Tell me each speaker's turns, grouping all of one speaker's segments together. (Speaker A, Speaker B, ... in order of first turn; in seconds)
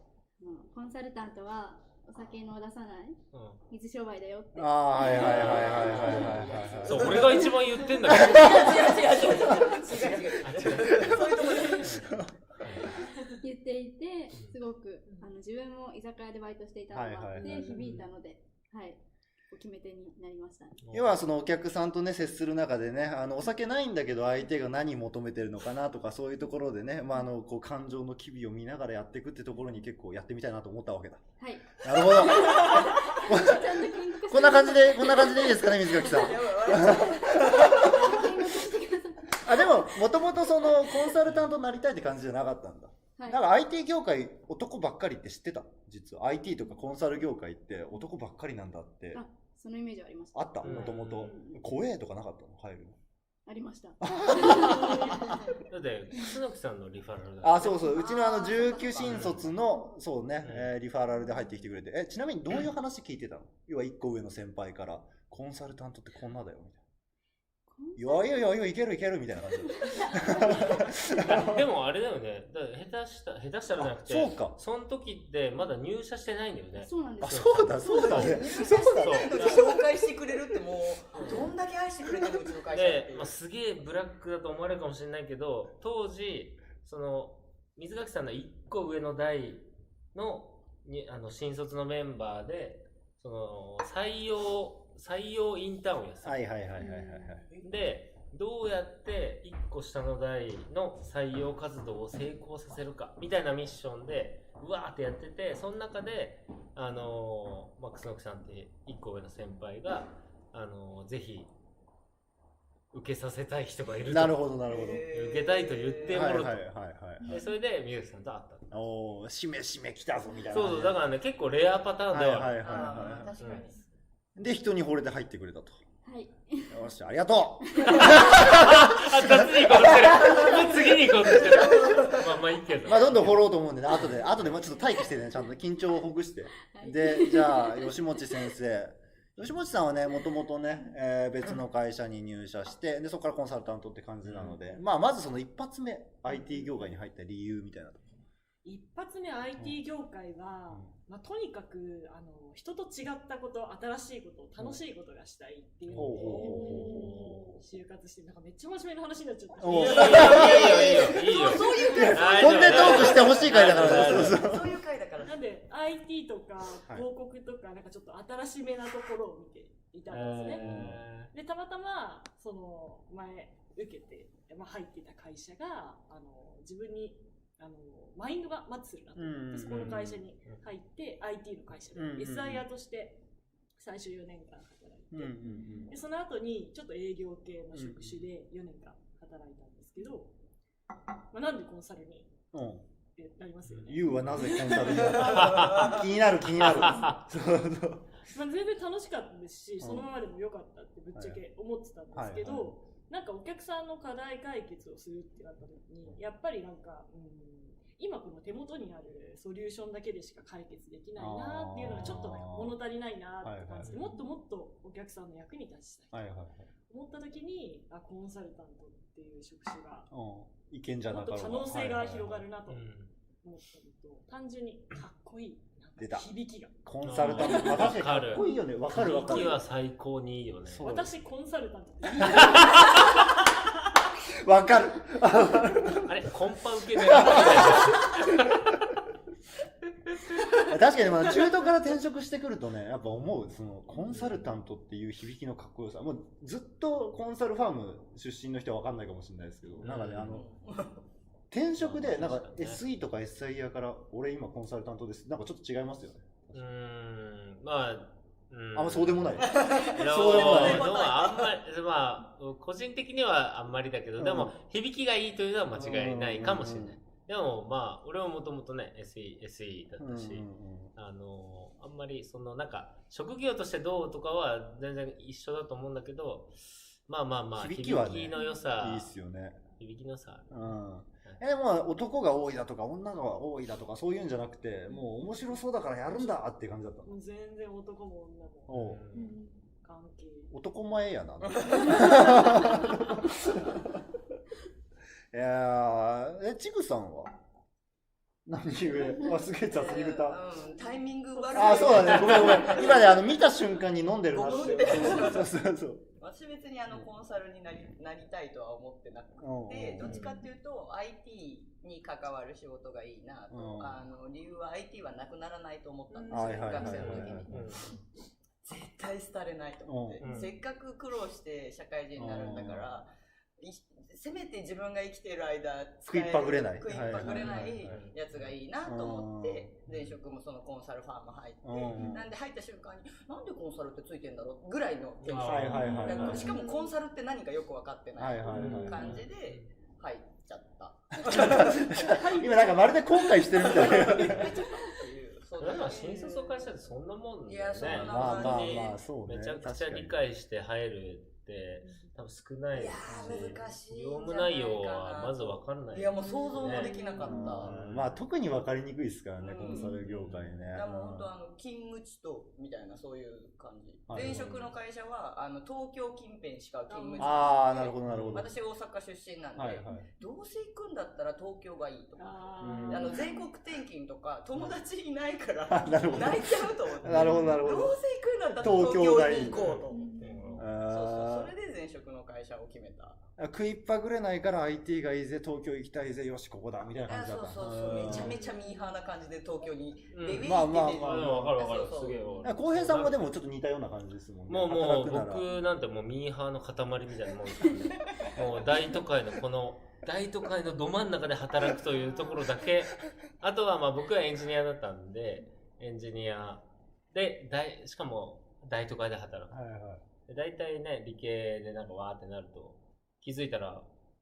Speaker A: 0.4-6.5, 13.3-19.0, 19.5-20.8, 31.4-41.1, 49.1-51.6, 53.5-55.6, 67.7-68.4, 69.7-70.8, 76.8-78.5, 117.2-117.5, 126.0-126.9, 127.7-128.4, 136.7-138.5, 185.4-185.9, 289.1-289.6, 372.9-373.4, 377.3-377.5, 379.9-380.5
Speaker B: 3.3-3.6, 5.1-9.0, 10.4-13.1, 17.4-18.1, 20.8-21.1, 41.2-41.5, 50.6-51.4, 55.6-57.8, 59.0-59.4, 60.4-60.7, 71.1-79.6, 81.1-81.5, 82.7-96.5, 97.6-111.5, 112.9-114.5, 115.1-118.7, 120.5-123.7, 127.8-134.6, 144.2-144.6, 155.9-157.6, 159.7-164.5, 170.1-171.3, 179.7-180.6, 193.7-194.4, 195.3-197.2, 213.8-214.2, 222.7-223.1, 227.0-230.9, 232.3-232.9, 236.0-238.5, 244.1-244.4, 249.8-250.4, 251.8-252.8, 256.5-279.1, 279.8-280.7, 288.7-289.4, 310.0-310.3, 316.8-318.0, 320.2-320.5, 327.1-328.5, 329.9-330.2, 335.2-336.5, 338.5-339.7, 345.6-358.2, 360.0-360.6, 364.1-364.7, 368.1-368.5, 372.6-373.2, 379.5-380.7, 390.1-393.3, 394.5-409.6, 410.2-413.9
Speaker C: 4.5-7.5, 8.0-12.3, 16.9-17.8, 20.9-38.4, 39.3-49.2, 50.3-53.0, 54.0-55.4, 57.4-66.8, 68.0-71.7, 74.0-74.6, 77.2-79.5, 96.2-97.5, 114.0-115.0, 116.1-117.4, 118.7-121.0, 122.1-123.3, 124.3-125.8, 126.7-131.6, 132.8-148.1, 155.9-156.9, 159.6-160.9, 161.8-164.8, 170.4-171.0, 179.2-180.1, 181.9-182.6, 185.1-185.9, 187.7-188.2, 192.5-192.8, 193.8-198.1, 199.8-200.1, 201.1-201.4, 202.1-202.7, 211.2-212.8, 213.4-214.0, 216.1-216.7, 220.1-222.4, 226.0-226.2, 226.8-229.6, 230.6-231.1, 232.2-233.1, 234.4-236.1, 236.9-238.9, 240.6-250.5, 251.5-256.6, 258.7-260.9, 264.2-264.5, 265.8-267.0, 270.0-270.9, 277.6-279.6, 280.5-287.1, 288.7-289.0, 290.5-294.0, 295.3-297.3, 298.4-300.4, 301.5-306.0, 309.4-310.2, 313.5-314.0, 316.3-317.7, 319.8-320.2, 322.1-322.9, 326.1-328.0, 328.8-329.7, 331.6-332.1, 335.4-336.5, 338.2-339.2, 341.2-344.5, 347.8-350.2, 353.1-353.4, 357.2-361.3, 364.1-364.5, 367.2-368.5, 369.6-370.1, 375.7-377.9, 378.6-379.6, 380.6-381.5, 383.4-388.4, 390.4-391.5, 392.4-395.4, 409.5-410.0
Speaker D: 5.0-12.2, 36.1-38.3, 55.0-55.6, 57.6-59.4, 77.9-83.3, 114.6-116.4, 122.6-123.8, 131.2-132.4, 159.7-165.3, 195.2-196.0, 250.2-251.0, 259.4-261.5, 291.4-292.4, 299.7-303.4, 304.3-305.5, 306.2-317.5, 318.6-342.0, 343.4-346.7, 347.5-349.0, 352.7-357.7, 359.4-360.0, 360.7-380.2, 380.8-383.2, 387.1-392.3, 398.1-398.4
Speaker E: 17.4-17.8, 96.8-97.7, 148.6-164.3, 165.2-170.7, 171.3-183.2, 183.8-185.3, 185.9-190.3, 191.3-192.3, 193.2-195.9, 198.3-216.3, 216.9-220.1, 221.1-222.8, 223.4-228.5, 229.0-229.5, 230.8-233.1, 284.9-286.4, 287.0-288.7, 289.8-290.5, 301.3-303.4, 304.3-305.4, 316.1-317.3, 320.2-320.5, 335.7-336.9, 341.3-344.9, 351.8-352.1, 356.1-357.5, 359.6-359.9, 366.9-367.6, 372.2-373.4, 377.1-377.6, 379.9-380.2, 388.0-388.9